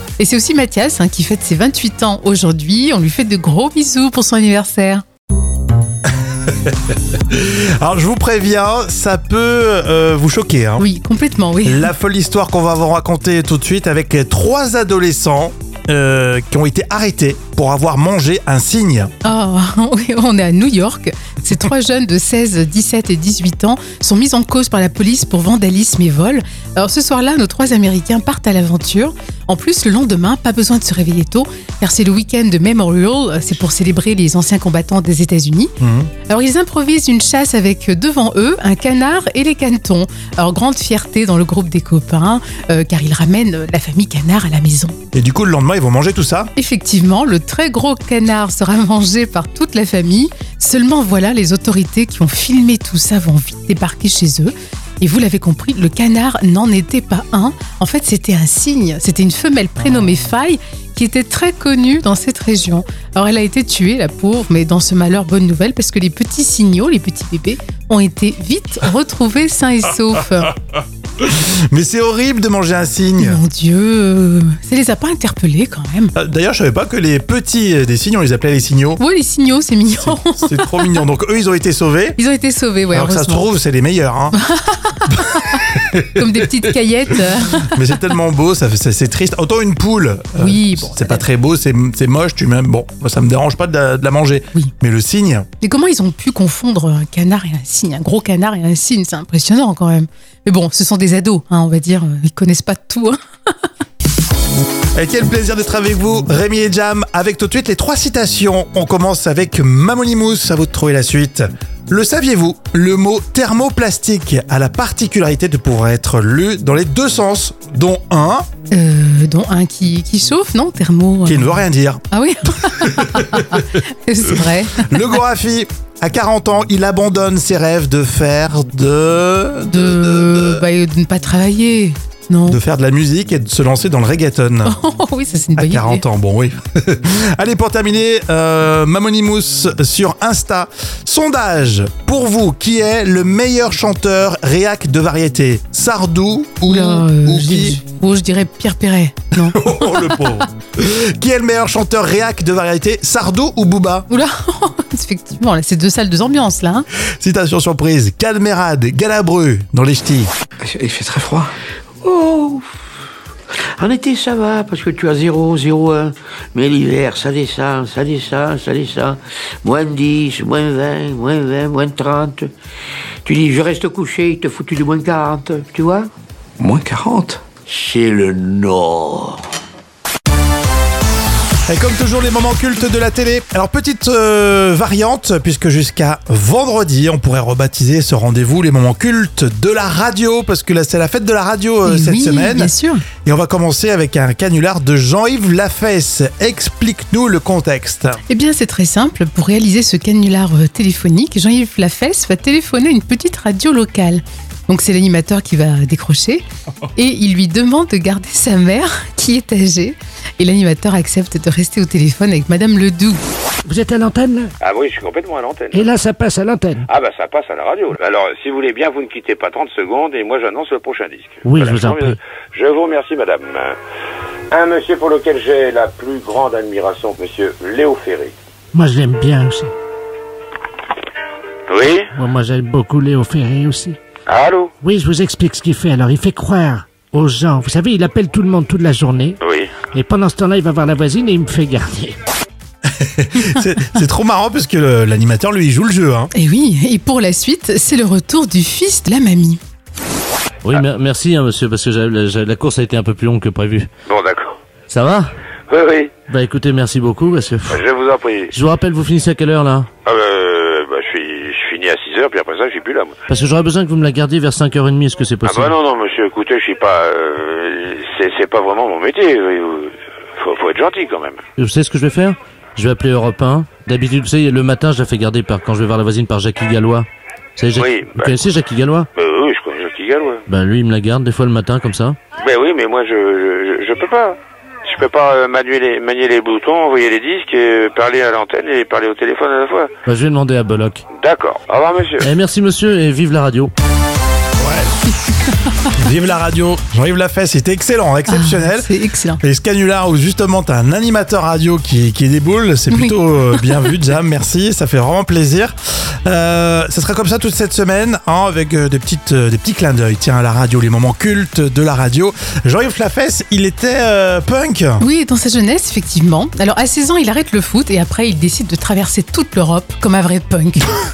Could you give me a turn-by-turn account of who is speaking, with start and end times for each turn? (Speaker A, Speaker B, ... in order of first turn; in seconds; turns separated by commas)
Speaker A: 0.2-5.0, Speaker B: 6.4-10.8, Speaker A: 10.8-11.9, Speaker B: 11.6-19.1, Speaker A: 19.2-35.7, Speaker B: 35.8-36.1, Speaker A: 36.3-45.0, Speaker B: 45.1-46.5, Speaker A: 46.6-70.5, Speaker B: 71.2-73.4, Speaker A: 73.2-76.1, Speaker B: 76.2-79.0, Speaker A: 79.0-81.0, Speaker B: 80.0-82.2, Speaker A: 82.2-83.5, Speaker B: 82.9-84.4, Speaker A: 84.3-87.8, Speaker B: 87.5-95.5, Speaker A: 90.4-91.2, Speaker A: 95.6-103.2, Speaker B: 104.9-118.5, Speaker A: 118.7-121.6, Speaker B: 121.2-122.0, Speaker A: 122.1-125.1, Speaker B: 122.8-123.6, Speaker B: 124.8-130.6, Speaker A: 129.7-132.6, Speaker B: 132.5-134.7, Speaker A: 134.7-136.0, Speaker B: 135.6-147.8, Speaker A: 146.6-150.4, Speaker B: 149.4-154.1, Speaker A: 154.1-156.8, Speaker B: 157.2-160.3, Speaker C: 160.6-161.5, Speaker D: 162.0-162.6, Speaker D: 163.8-172.5, Speaker D: 173.2-176.1, Speaker C: 176.6-177.4, Speaker D: 177.7-179.4, Speaker C: 178.1-178.5, Speaker B: 181.7-192.7, Speaker A: 191.8-193.1, Speaker B: 193.2-198.2, Speaker A: 198.3-206.4, Speaker A: 206.9-213.2, Speaker E: 213.7-214.5, Speaker F: 214.6-215.9, Speaker E: 215.7-216.8, Speaker F: 216.9-223.8, Speaker G: 221.6-222.2, Speaker F: 224.5-228.3, Speaker E: 228.7-229.7, Speaker F: 231.7-232.1, Speaker E: 232.2-234.0, Speaker F: 234.3-234.7, Speaker E: 234.8-239.4, Speaker F: 239.4-239.8, Speaker E: 239.9-242.2, Speaker B: 242.9-246.3, Speaker A: 246.3-249.6, Speaker G: 250.6-253.9, Speaker F: 254.1-254.6, Speaker G: 254.9-255.3, Speaker F: 255.7-256.1, Speaker G: 256.3-257.8, Speaker F: 257.7-258.5, Speaker G: 258.5-259.9, Speaker F: 260.0-263.2, Speaker G: 263.3-265.7, Speaker F: 265.4-271.4, Speaker G: 271.6-279.1, Speaker F: 277.7-278.5, Speaker F: 279.1-280.4, Speaker G: 280.5-282.2, Speaker F: 282.4-289.9, Speaker G: 290.1-291.0, Speaker F: 291.1-292.3, Speaker G: 292.2-293.7, Speaker B: 294.6-294.9, Speaker B: 295.9-298.9, Speaker A: 298.3-299.4, Speaker B: 299.4-315.0, Speaker A: 302.9-303.9, Speaker A: 315.0-320.9